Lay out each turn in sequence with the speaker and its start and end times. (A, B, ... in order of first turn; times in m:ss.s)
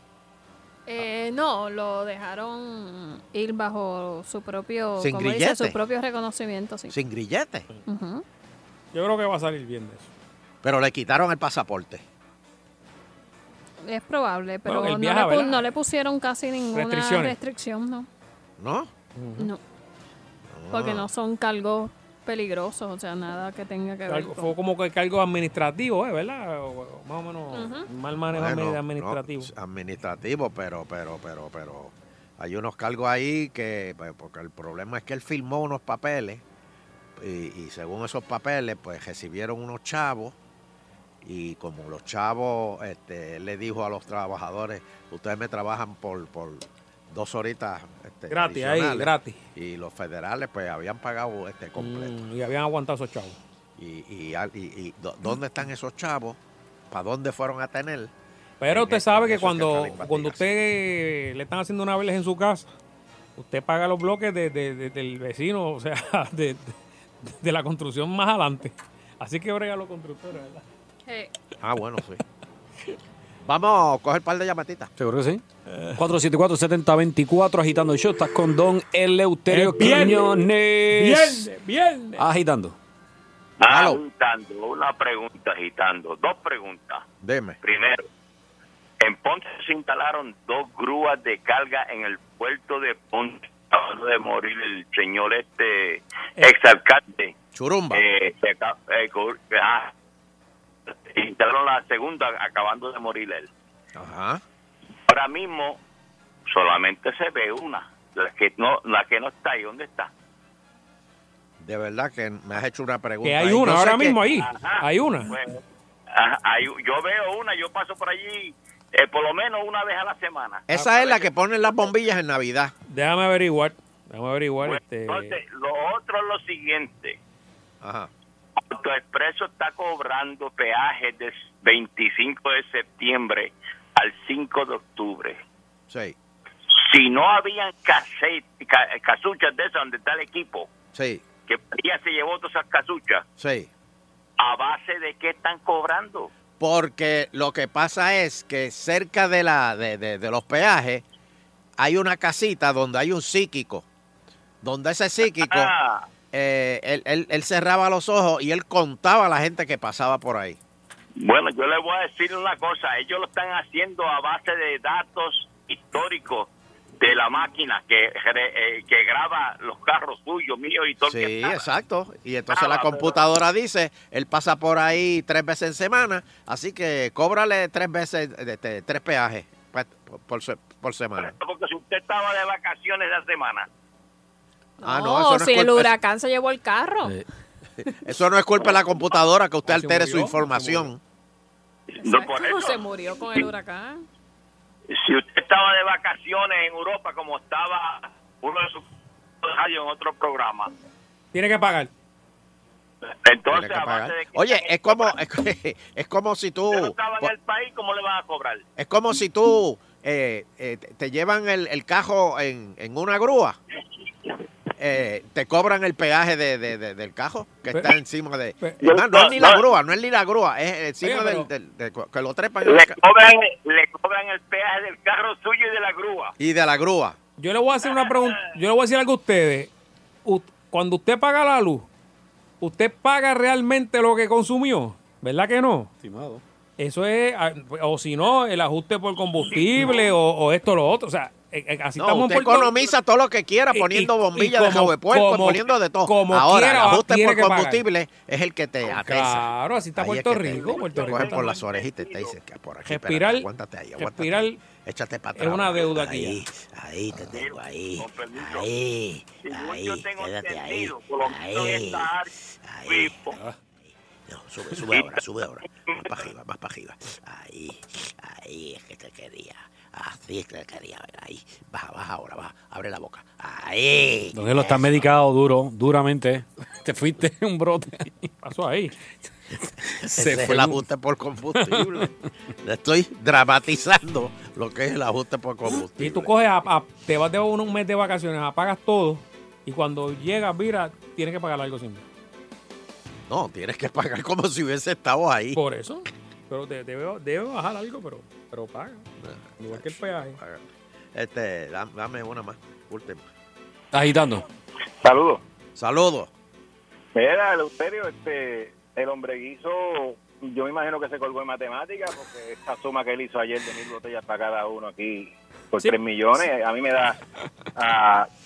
0:00.9-0:07.0 A
0:05.0-0:05.8 B
0:06.9-0:07.7 B
0:07.9-0:08.2 A
0:08.9-0:10.1 C
0:10.6-0:12.0 B
0:13.8-0:18.1 A
0:14.7-0:15.7 C
0:16.7-0:17.4 C
0:18.6-0:18.9 B
0:19.2-0:19.5 C
0:20.5-0:21.1 B
0:20.7-0:24.5 A
0:24.1-0:29.5 C
0:27.5-0:27.9 A
0:28.3-0:36.4 B
0:37.2-0:40.4 B
0:41.2-0:52.2 B
0:48.3-0:49.4 C
0:51.8-0:53.4 C
0:53.8-0:56.4 B
0:56.9-0:58.1 B
0:58.6-1:02.7 C
0:58.7-1:00.5 B
1:03.4-1:10.6 C
1:11.1-1:11.3 A
1:11.6-1:12.2 B
1:13.4-1:14.9 B
1:15.0-1:15.4 D
1:15.7-1:16.0 C
1:16.0-1:21.5 D
1:19.5-1:22.3 C
1:22.2-1:22.8 D
1:23.6-1:27.0 E
1:23.6-1:24.0 B
1:27.2-1:27.6 B
1:27.6-1:28.0 E
1:29.0-1:37.3 E
1:37.5-1:38.0 B
1:37.9-1:39.9 E
1:41.0-1:43.5 E
1:44.0-1:44.4 B
1:45.1-1:45.8 E
1:46.5-1:50.1 E
1:51.6-1:54.2 B
1:53.2-1:55.3 C
1:54.4-1:55.6 E
1:56.1-2:01.2 E
2:00.7-2:02.7 B
2:00.7-2:01.0 C
2:02.9-2:05.4 C
2:04.6-2:07.2 E
2:07.8-2:08.1 B
2:08.6-2:15.4 E
2:15.9-2:16.2 B
2:16.8-2:20.7 E
2:20.9-2:21.3 B
2:21.5-2:23.2 E
2:23.4-2:23.7 B
2:24.4-2:26.3 E
2:26.6-2:31.0 B
2:31.8-2:33.8 B
2:34.6-2:35.7 B
2:35.4-2:36.0 E
2:36.3-2:40.6 B
2:41.2-2:46.5 E
2:47.0-2:51.6 E
2:51.0-3:01.3 B
2:52.5-2:53.3 E
3:01.2-3:03.7 E
3:04.8-3:07.2 A
3:04.8-3:05.9 B
3:08.0-3:11.0 B
3:09.7-3:10.9 C
3:12.0-3:14.0 A
3:12.0-3:12.8 E
3:14.9-3:18.8 E
3:19.4-3:20.7 E
3:21.3-3:21.9 C
3:23.2-3:25.2 E
3:23.5-3:27.3 B
3:26.7-3:28.6 E
3:28.8-3:33.6 B
3:34.8-3:43.0 B
3:38.6-3:38.9 C
3:38.8-3:39.7 E
3:41.0-3:41.5 C
3:42.6-3:46.3 E
3:46.4-3:47.2 B
3:47.4-3:49.7 C
3:50.2-3:51.9 C
3:52.6-3:55.9 C
3:56.0-3:56.4 D
3:56.8-4:02.8 C
4:02.0-4:09.5 B
4:03.7-4:07.8 C
4:08.9-4:11.5 C
4:10.0-4:23.3 B
4:10.7-4:12.4 E
4:12.9-4:14.6 C
4:15.4-4:16.4 C
4:17.2-4:18.7 E
4:19.4-4:22.3 E
4:22.9-4:23.3 E
4:24.3-4:35.1 B
4:24.8-4:25.2 E
4:34.3-4:38.3 D
4:38.4-4:39.0 C
4:40.0-4:40.8 D
4:40.2-4:42.1 B
4:42.6-4:46.3 B
4:46.0-4:52.0 C
4:53.3-4:55.6 B
4:55.6-5:00.4 C
4:59.2-5:03.2 B
5:03.9-5:04.4 D
5:05.0-5:05.4 F
5:05.8-5:06.3 B
5:07.2-5:17.2 F
5:17.8-5:18.3 F